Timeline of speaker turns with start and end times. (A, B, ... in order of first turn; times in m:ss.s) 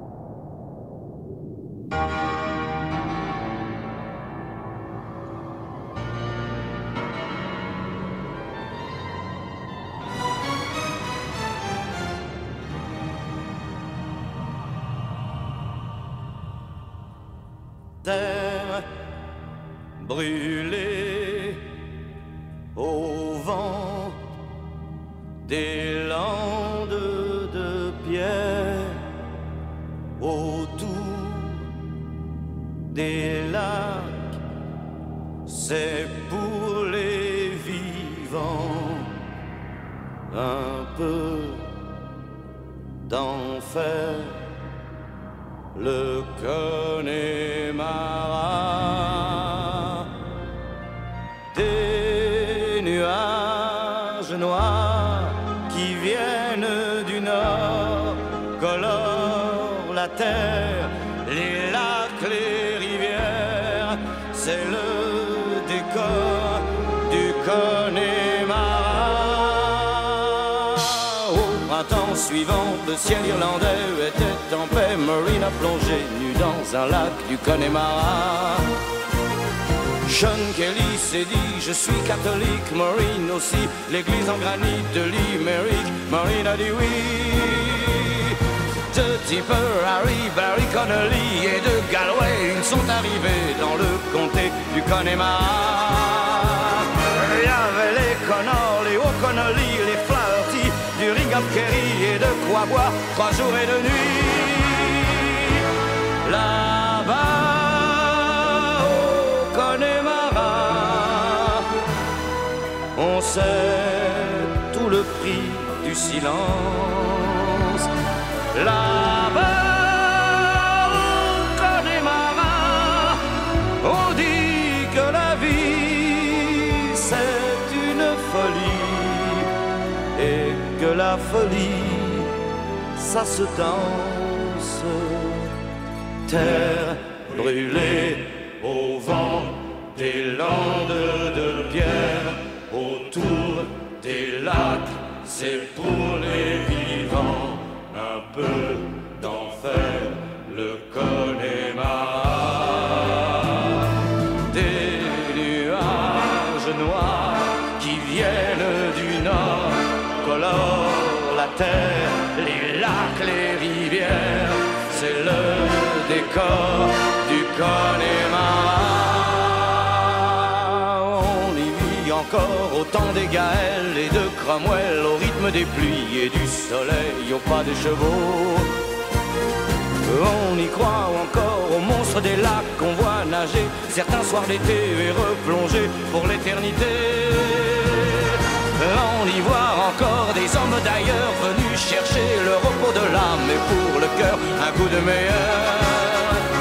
0:18.0-0:18.9 A
0:20.0-0:21.6 A
0:22.7-0:24.2 A
0:25.4-0:29.0 A
0:30.2-0:31.6 A
0:32.9-0:34.4 A
0:35.4-0:39.1 A
0:40.3-0:41.7 A
0:43.0-0:44.4 A
0:45.7-0:49.9 A
0:51.5-1:18.7 A
1:20.0-1:28.4 A
1:28.9-1:45.6 A
1:46.2-1:51.6 A
1:52.9-1:57.9 A
1:58.5-2:03.2 A
2:03.8-2:09.5 A
2:10.1-2:12.3 A
2:12.9-2:15.5 A
2:16.3-2:33.7 A
2:34.5-2:58.7 A
3:00.0-3:16.4 A